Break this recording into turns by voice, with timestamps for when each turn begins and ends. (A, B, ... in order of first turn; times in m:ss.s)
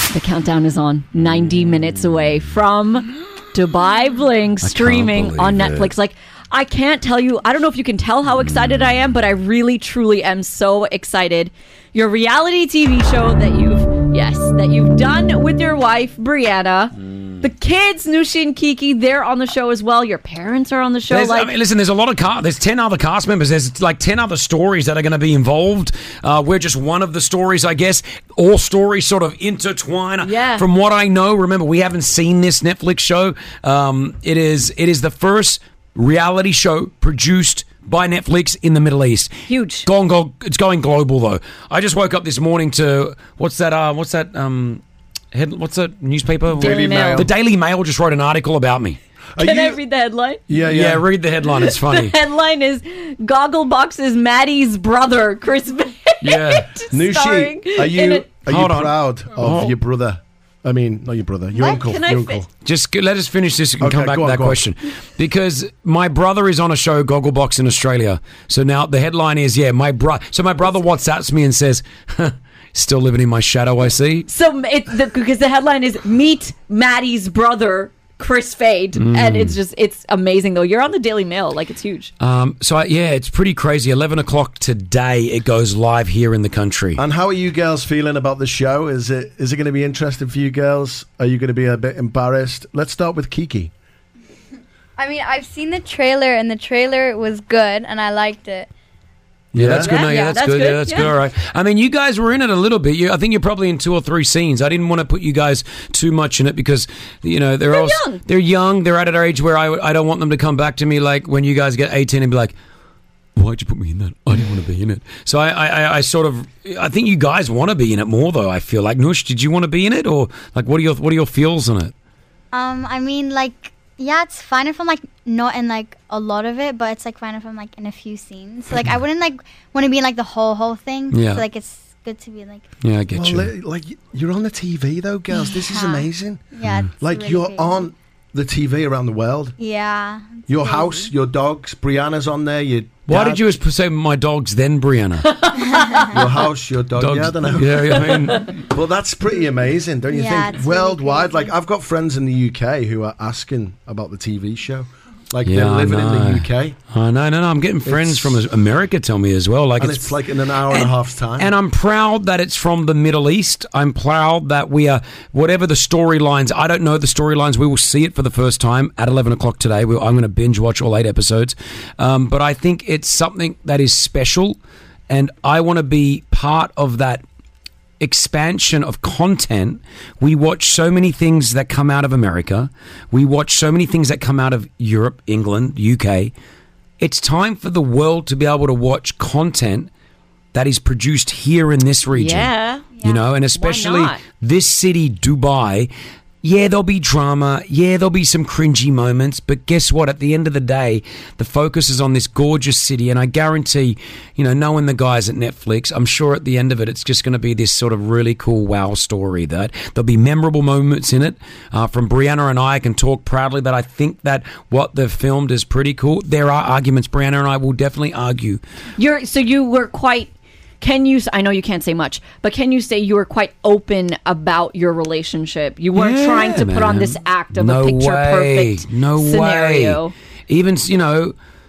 0:00.1-0:21.5 A
0:04.6-0:05.9 B
0:21.1-0:39.3 B
0:30.2-0:30.6 A
0:39.5-0:39.9 A
0:39.8-0:49.0 B
0:46.6-0:47.3 C
0:46.6-0:47.3 A
0:49.4-0:49.8 C
0:49.4-0:50.4 A
0:50.5-0:51.0 C
0:50.6-0:52.2 B
0:51.6-0:58.2 A
0:56.2-0:56.7 B
0:56.9-1:02.5 C
0:58.4-0:59.7 B
1:01.5-1:02.4 A
1:02.6-1:14.3 B
1:03.8-1:04.6 C
1:14.3-1:22.1 A
1:19.0-1:19.6 B
1:22.2-1:27.0 B
1:27.0-1:33.7 C
1:35.0-1:38.7 D
1:39.5-1:39.9 C
1:39.6-1:52.5 B
1:39.8-1:41.1 A
1:39.9-1:40.3 D
1:47.7-1:48.2 A
1:53.4-2:01.9 B
2:02.5-2:12.6 E
2:11.1-2:11.4 B
2:12.8-2:13.5 B
2:13.1-2:16.4 C
2:15.4-2:17.9 E
2:17.0-2:19.6 C
2:19.6-2:21.1 E
2:20.5-2:23.4 C
2:23.1-2:25.4 B
2:25.2-2:26.1 A
2:25.7-2:26.2 E
2:26.1-2:28.2 C
2:26.9-2:28.6 B
2:27.9-2:28.5 A
2:28.7-2:36.8 C
2:30.1-2:31.5 E
2:35.4-2:40.1 B
2:37.8-2:38.4 C
2:39.8-2:41.5 C
2:40.7-2:54.6 B
2:55.1-2:57.2 B
2:58.0-3:06.3 B
3:07.0-3:09.9 B
3:10.5-3:15.9 B
3:12.1-3:12.9 A
3:12.9-3:13.2 E
3:13.5-3:14.2 A
3:16.4-3:38.6 B
3:39.0-3:50.1 A
3:45.9-3:51.3 B